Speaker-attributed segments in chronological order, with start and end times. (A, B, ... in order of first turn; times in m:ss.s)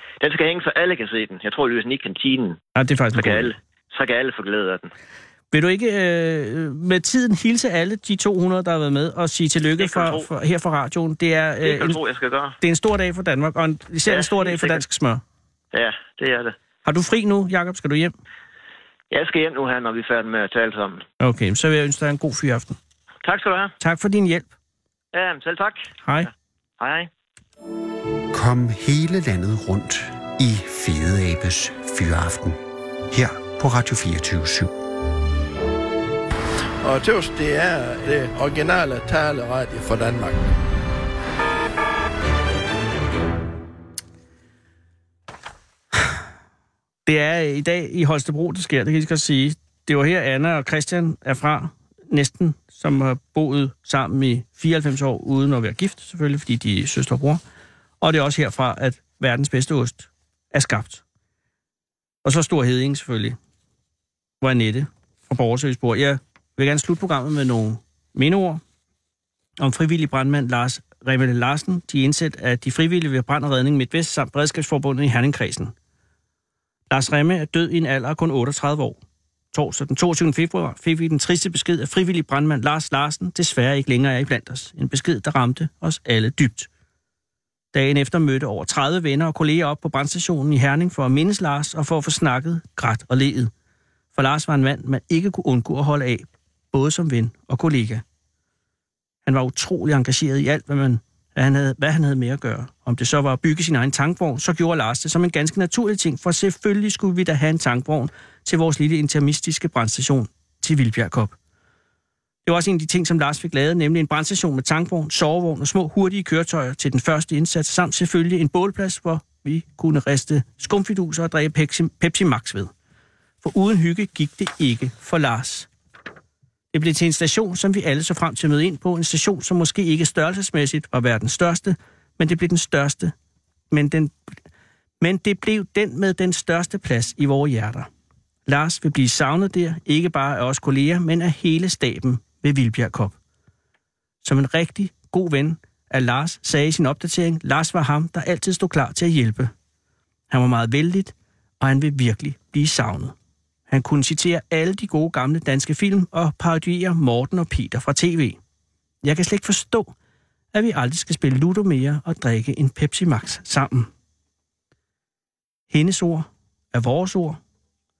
0:00.2-0:02.6 A
0:02.8-0:03.5 B
0:03.1-0:04.9 A
0:05.5-0:12.0 B
0:09.8-0:10.3 A
0:11.6-0:12.6 A
0:12.6-0:15.2 B
0:14.1-0:14.8 A
0:15.7-0:16.6 A
0:16.8-0:18.1 B
0:19.1-0:21.0 A
0:21.2-0:22.8 B
0:23.2-0:23.7 A
0:23.8-0:24.5 B
0:25.1-0:25.9 A
0:26.0-0:26.3 B
0:26.8-0:27.1 A
0:28.3-0:32.6 C
0:33.1-0:34.7 C
0:36.8-0:40.4 D
0:47.1-0:57.4 B
0:58.0-1:01.0 B
1:02.2-1:03.4 B
1:04.4-1:08.6 B
1:09.6-1:15.7 B
1:16.9-1:19.0 B
1:19.5-1:26.7 B
1:27.7-1:33.5 B
1:34.2-1:38.0 B
1:39.2-1:51.4 B
1:52.4-2:02.7 B
2:03.4-2:05.7 B
2:06.7-2:13.1 B
2:13.7-2:14.2 B
2:15.0-2:17.9 B
2:18.5-2:23.2 B
2:24.2-2:29.5 B
2:30.3-2:33.2 B
2:33.7-2:38.4 B
2:39.0-2:39.9 B
2:40.5-2:43.9 B
2:45.7-2:47.4 B